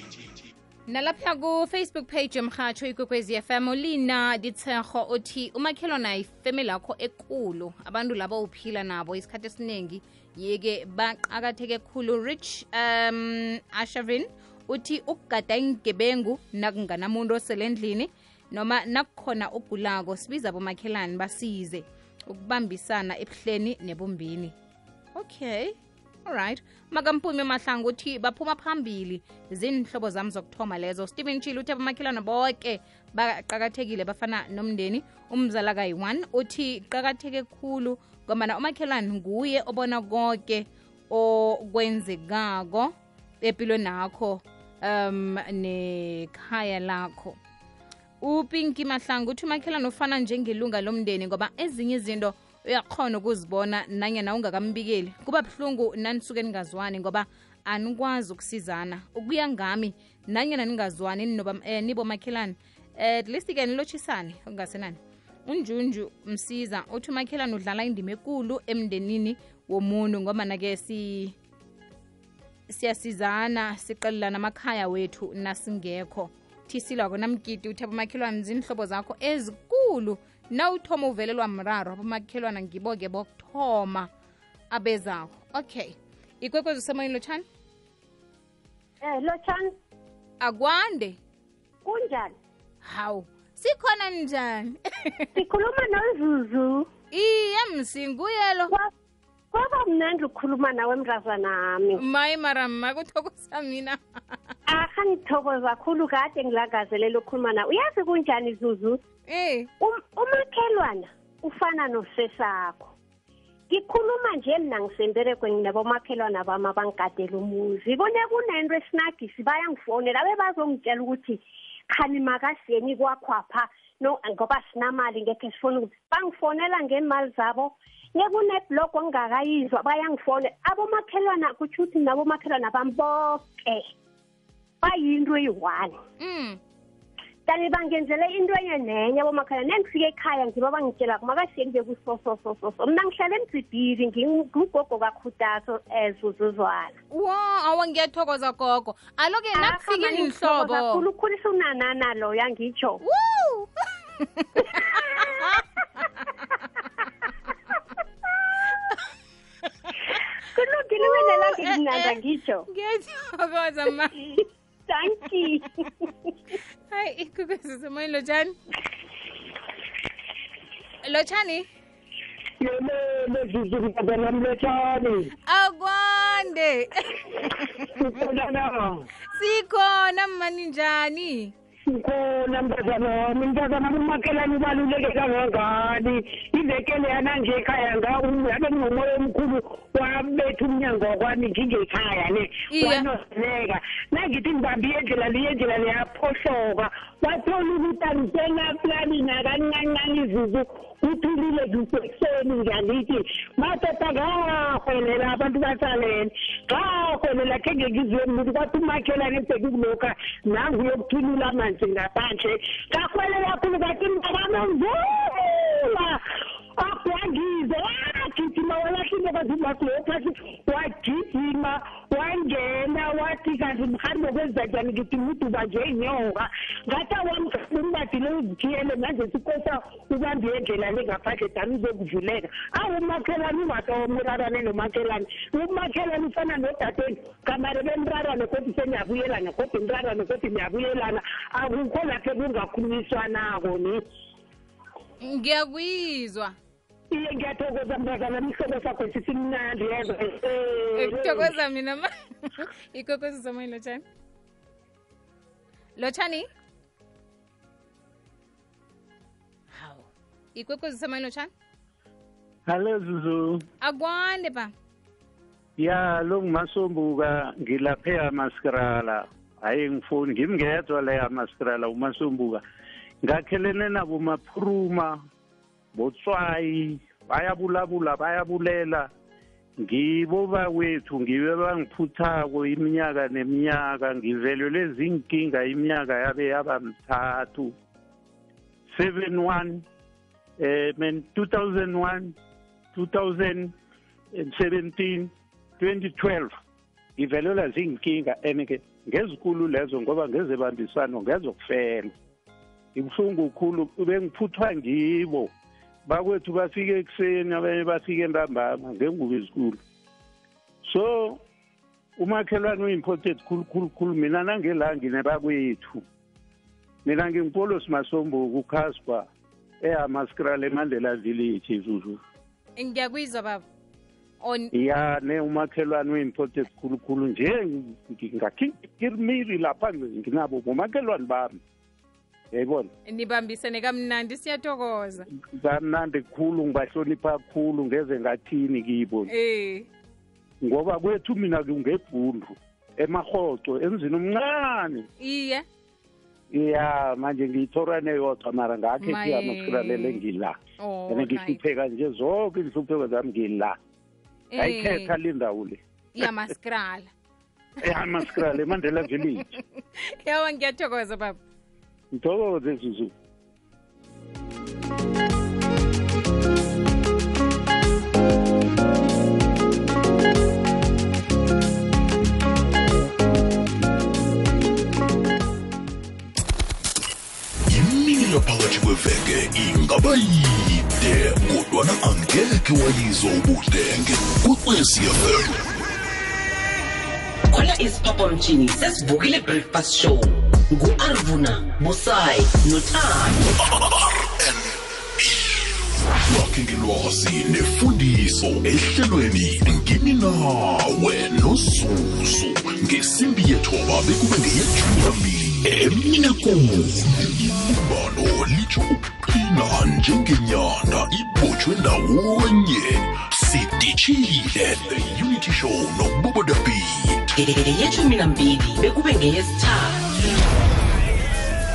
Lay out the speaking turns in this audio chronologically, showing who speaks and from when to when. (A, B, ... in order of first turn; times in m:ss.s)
0:00.9-0:24.6 A
0:25.2-0:47.4 A
0:48.2-1:11.4 A
1:12.7-1:24.1 A
1:24.7-1:27.4 A
1:29.0-1:29.7 B
1:30.4-1:31.2 A
1:31.8-1:32.4 B
1:32.8-1:35.3 A
1:35.4-1:36.9 B
1:37.1-1:38.7 A
1:39.5-1:42.0 B
1:42.0-1:44.0 A
1:44.7-1:49.0 B
1:49.3-1:49.7 A
1:49.8-1:52.9 B
1:53.7-2:13.9 B
2:14.8-2:16.0 B
2:16.2-2:16.6 A
2:17.5-2:27.0 B
2:27.1-2:31.0 A
2:29.6-2:33.0 B
2:33.0-2:35.6 A
2:34.7-2:35.3 B
2:40.5-2:42.7 B
2:41.0-2:44.4 A
2:44.9-2:46.3 B
2:46.9-2:48.6 A
2:51.0-2:51.7 A
2:52.6-2:55.3 C
2:55.5-2:57.2 A
2:57.8-2:59.0 C
2:59.4-3:01.5 A
3:01.8-3:36.2 C
3:12.7-3:13.1 A
3:36.8-4:04.0 C
4:05.2-4:06.6 A
4:07.1-4:11.5 C
4:11.0-4:14.0 A
4:16.0-4:16.5 A
4:19.7-4:20.0 A
4:20.6-4:21.5 A
4:22.7-4:23.6 D
4:23.8-4:24.7 A
4:25.8-4:32.6 D
4:33.2-4:35.2 D
4:35.9-4:39.1 D
4:39.8-4:47.7 D
4:48.9-4:49.8 D
4:50.6-4:52.4 D
4:52.9-4:53.7 D
4:54.4-4:56.5 D
4:57.2-5:02.1 D
5:03.0-5:05.5 D
5:06.1-5:09.8 D
5:10.9-5:11.4 D
5:12.2-5:16.0 D
5:17.0-5:19.3 D
5:19.8-5:22.2 D
5:22.8-5:23.6 A
5:24.4-5:24.7 A
5:24.7-5:31.6 D
5:32.5-5:32.9 D
5:33.1-5:35.3 A
5:35.4-5:39.3 D
5:39.3-5:39.9 A
5:40.6-5:45.1 D
5:45.2-5:45.6 A
5:46.5-5:50.6 D
5:49.0-5:50.2 A
5:50.8-5:51.6 A
5:51.1-5:53.8 D
5:54.5-5:55.1 A
5:54.6-5:56.3 D
5:56.2-5:57.1 A
5:57.8-5:59.5 D
5:59.8-6:01.4 A
6:02.1-6:03.1 D
6:17.7-6:25.6 E
6:27.5-6:33.4 F
6:33.6-6:35.7 E
6:36.2-6:57.3 E
6:57.4-7:00.0 F